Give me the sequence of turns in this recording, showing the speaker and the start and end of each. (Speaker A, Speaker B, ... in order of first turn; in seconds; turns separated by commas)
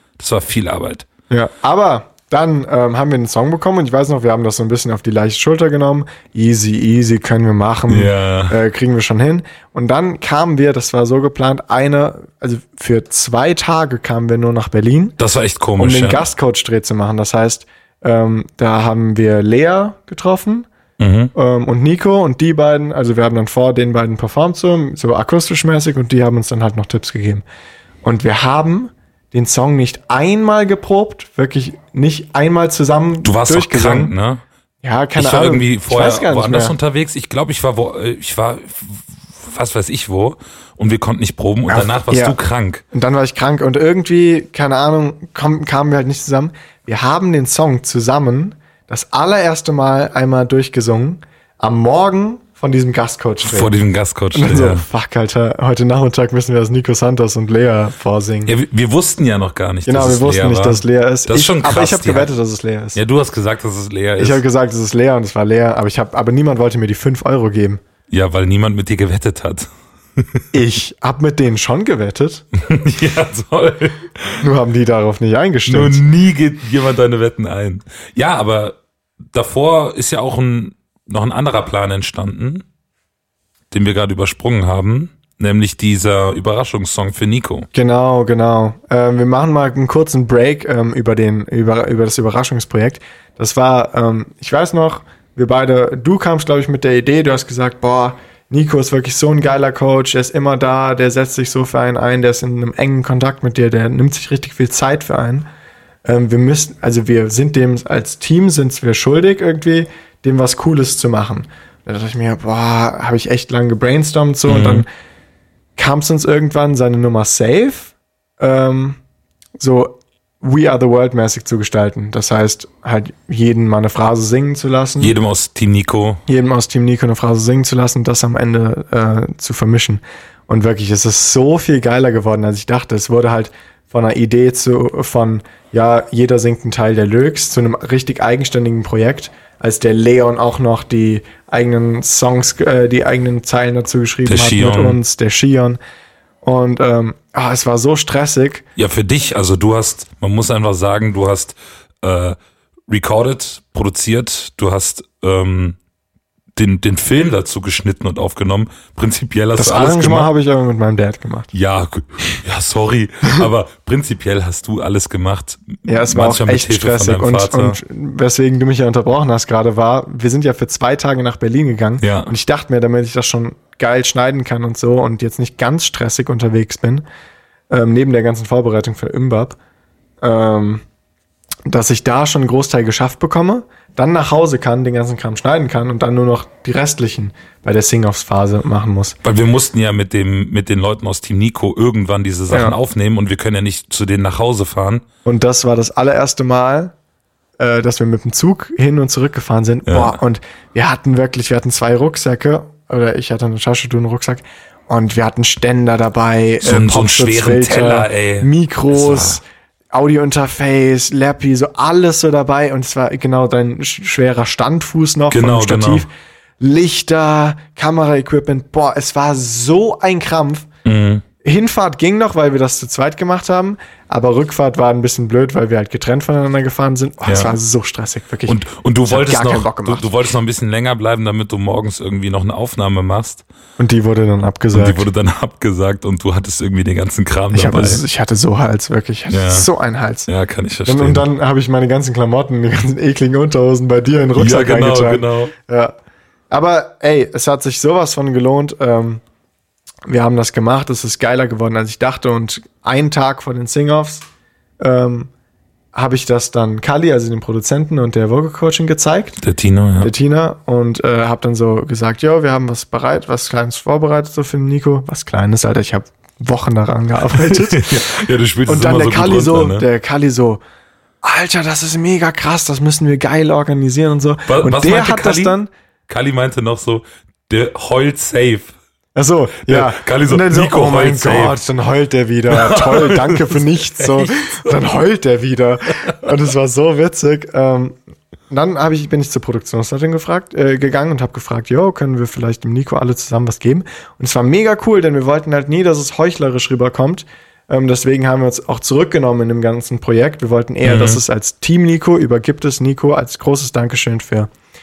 Speaker A: 0.2-1.1, Speaker B: 1.3-15.2, Speaker A: 7.9-8.6, Speaker A: 15.2-16.2, Speaker B: 15.8-20.7, Speaker A: 21.0-21.3, Speaker B: 21.3-27.4, Speaker B: 28.0-34.1, Speaker A: 33.2-34.4, Speaker B: 34.8-36.7, Speaker A: 35.1-42.8, Speaker B: 41.7-42.4, Speaker B: 42.9-53.7, Speaker A: 53.4-54.9, Speaker B: 54.3-58.5, Speaker A: 58.5-62.3, Speaker B: 59.8-63.0, Speaker A: 62.9-64.4, Speaker B: 64.2-67.8, Speaker A: 68.1-70.4, Speaker B: 70.5-72.4, Speaker A: 72.6-74.4, Speaker B: 74.4-76.0, Speaker A: 75.7-78.8, Speaker A: 79.3-82.6, Speaker A: 83.7-87.7, Speaker B: 87.7-105.5, Speaker B: 106.0-114.9, Speaker A: 114.5-114.8, Speaker B: 115.8-119.0, Speaker B: 119.6-125.1, Speaker A: 125.0-126.2, Speaker B: 126.3-145.8, Speaker A: 144.2-145.0, Speaker B: 146.4-148.6, Speaker A: 148.8-152.4, Speaker A: 152.9-155.8, Speaker A: 156.6-160.3, Speaker B: 159.6-161.5, Speaker A: 161.5-167.8, Speaker B: 165.8-177.0, Speaker A: 172.0-172.3, Speaker B: 177.7-179.6, Speaker B: 180.2-180.8, Speaker B: 181.7-189.2, Speaker A: 189.2-195.0, Speaker B: 192.5-192.7, Speaker B: 195.2-196.9, Speaker B: 197.6-220.7, Speaker A: 199.8-200.2, Speaker A: 206.6-209.4, Speaker A: 215.3-216.1, Speaker A: 220.8-221.2, Speaker B: 221.4-230.1, Speaker A: 227.2-227.6, Speaker A: 228.4-233.4, Speaker B: 233.8-235.1, Speaker A: 234.7-238.0, Speaker B: 237.5-240.3, Speaker A: 239.3-239.7, Speaker A: 240.3-241.2, Speaker B: 240.8-245.9, Speaker A: 244.3-245.5, Speaker B: 246.5-249.2, Speaker B: 250.1-254.2, Speaker B: 254.8-255.3, Speaker B: 255.9-259.4, Speaker A: 259.4-260.1, Speaker B: 260.0-270.6, Speaker A: 267.3-269.9, Speaker B: 271.2-275.7, Speaker A: 274.5-275.6, Speaker A: 276.1-278.7, Speaker B: 279.1-288.0, Speaker A: 279.6-281.6, Speaker A: 282.5-284.8, Speaker B: 288.5-304.5, Speaker A: 300.8-301.2